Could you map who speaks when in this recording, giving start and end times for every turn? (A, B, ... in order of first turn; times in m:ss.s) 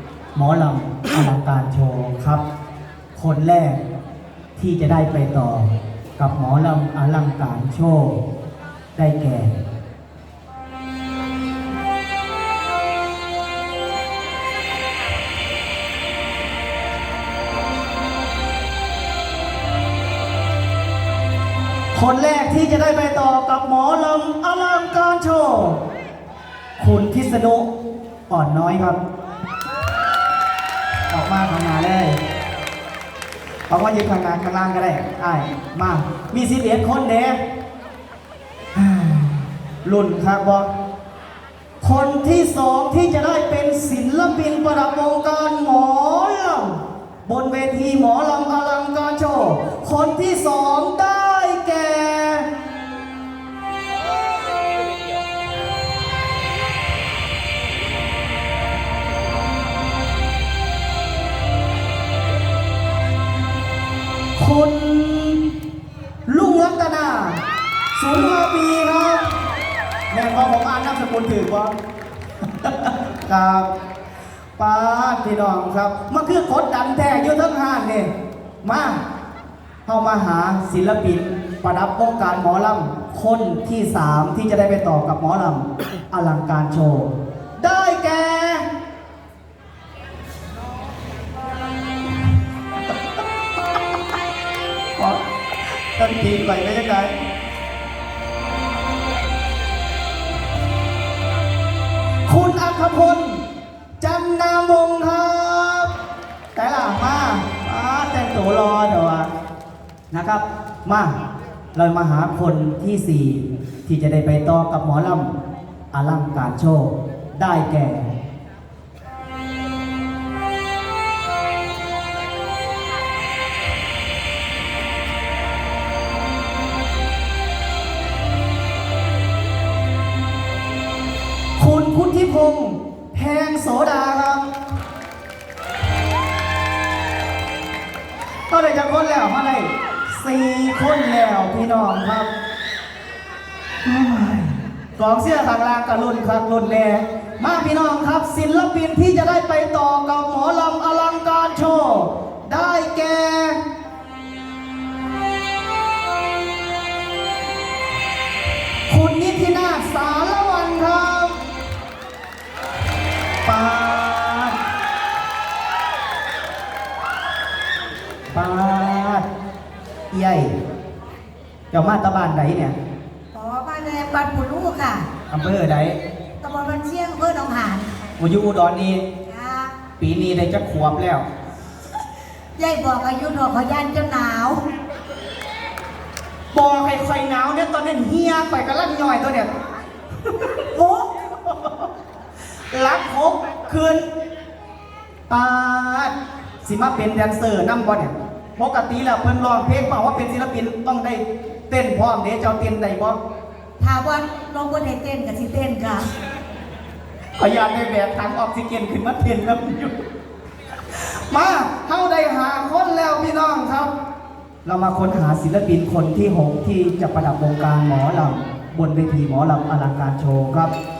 0:00.3-0:02.4 A
0:03.1-0:03.8 A
0:04.6-0:08.2 A
0:09.0-0:09.6 A
0:21.9-0:25.8 A
0:26.8-0:27.7 A
0:28.3-0:29.0 A
0:31.1-0:32.2 A
0:33.7-0:37.4 A
0:38.7-0:40.7 A
0:41.8-0:52.5 A
1:04.4-1:05.5 A
1:06.3-1:07.4 A
1:07.9-1:09.3 A
1:10.1-1:11.8 A
1:12.6-1:13.7 A
1:14.6-1:18.1 A
1:18.6-1:19.0 A
1:19.8-1:28.6 A
1:35.0-1:35.2 A
1:35.8-1:37.1 A
1:42.2-1:43.4 A
1:44.0-1:45.9 A
1:46.5-1:49.3 A
1:50.1-1:51.1 A
1:51.7-1:55.3 A
1:55.9-1:58.1 A
2:11.6-2:14.5 A
2:18.5-2:22.3 A
2:23.8-2:33.6 A
2:38.9-2:41.4 A
2:43.4-2:44.6 A
2:48.3-2:49.2 A
2:50.1-2:50.5 A
2:51.7-2:52.7 A
2:53.3-2:55.1 B
2:55.3-2:56.0 A
2:56.4-2:57.9 B
2:58.2-2:59.0 A
2:59.3-2:59.8 B
3:00.0-3:01.2 A
3:02.6-3:04.6 B
3:06.5-3:09.5 A
3:10.3-3:11.9 A
3:12.7-3:14.0 A
3:15.3-3:23.2 A
3:23.8-3:26.1 B
3:27.4-3:29.9 A
3:30.9-3:33.9 A
3:34.6-3:40.7 A